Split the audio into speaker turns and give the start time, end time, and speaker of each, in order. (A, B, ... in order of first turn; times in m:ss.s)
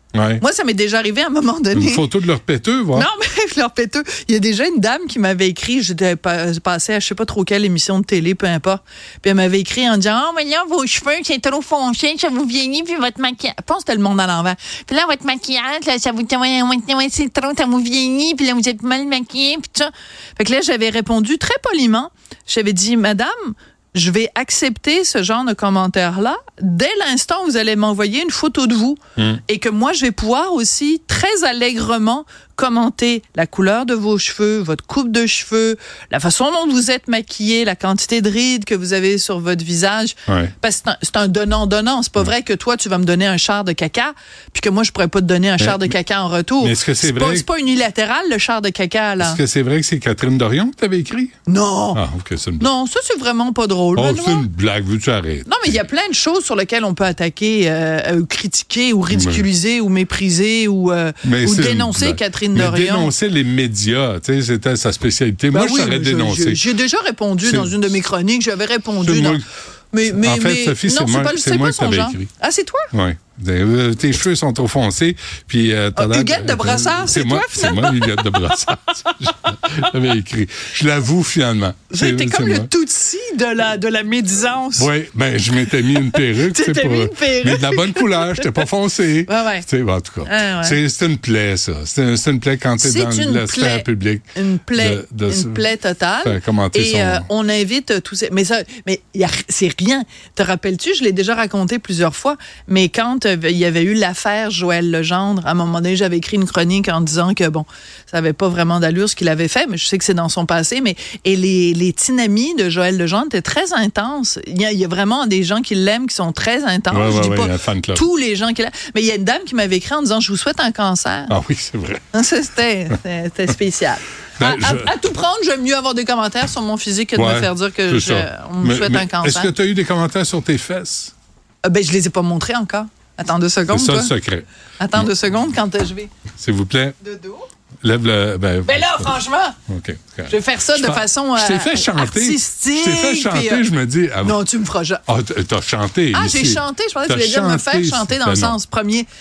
0:00.1-0:00.4 A
0:00.4-0:02.1 B
0:01.7-0:03.1 A
0:02.9-0:49.4 B
0:40.3-0:40.5 A
0:46.6-0:47.5 A
0:49.2-0:51.3 A
0:51.5-0:52.0 B
0:51.9-0:52.7 A
0:52.6-0:54.5 B
0:54.0-0:55.8 A
0:55.4-1:03.1 B
0:59.1-0:59.5 A
1:01.2-1:06.6 A
1:05.5-1:12.9 B
1:07.4-1:07.8 A
1:09.0-1:09.4 A
1:10.1-1:12.3 A
1:12.9-1:22.7 A
1:15.9-1:19.6 B
1:21.9-1:24.9 B
1:24.8-1:35.6 A
1:25.7-1:28.5 B
1:29.3-1:29.6 B
1:30.2-1:30.8 B
1:32.8-2:01.3 B
1:36.2-1:37.2 A
1:56.9-1:58.0 A
2:01.3-2:02.0 A
2:02.1-2:09.5 B
2:04.4-2:04.9 A
2:07.2-2:11.1 A
2:11.6-2:14.1 B
2:13.7-2:15.1 A
2:14.8-2:16.1 B
2:16.4-2:17.0 A
2:17.0-2:17.5 B
2:17.8-2:19.2 A
2:18.6-2:19.6 B
2:19.7-2:24.4 A
2:20.3-2:23.6 B
2:24.2-2:25.0 B
2:25.1-2:28.6 A
2:26.1-2:29.1 B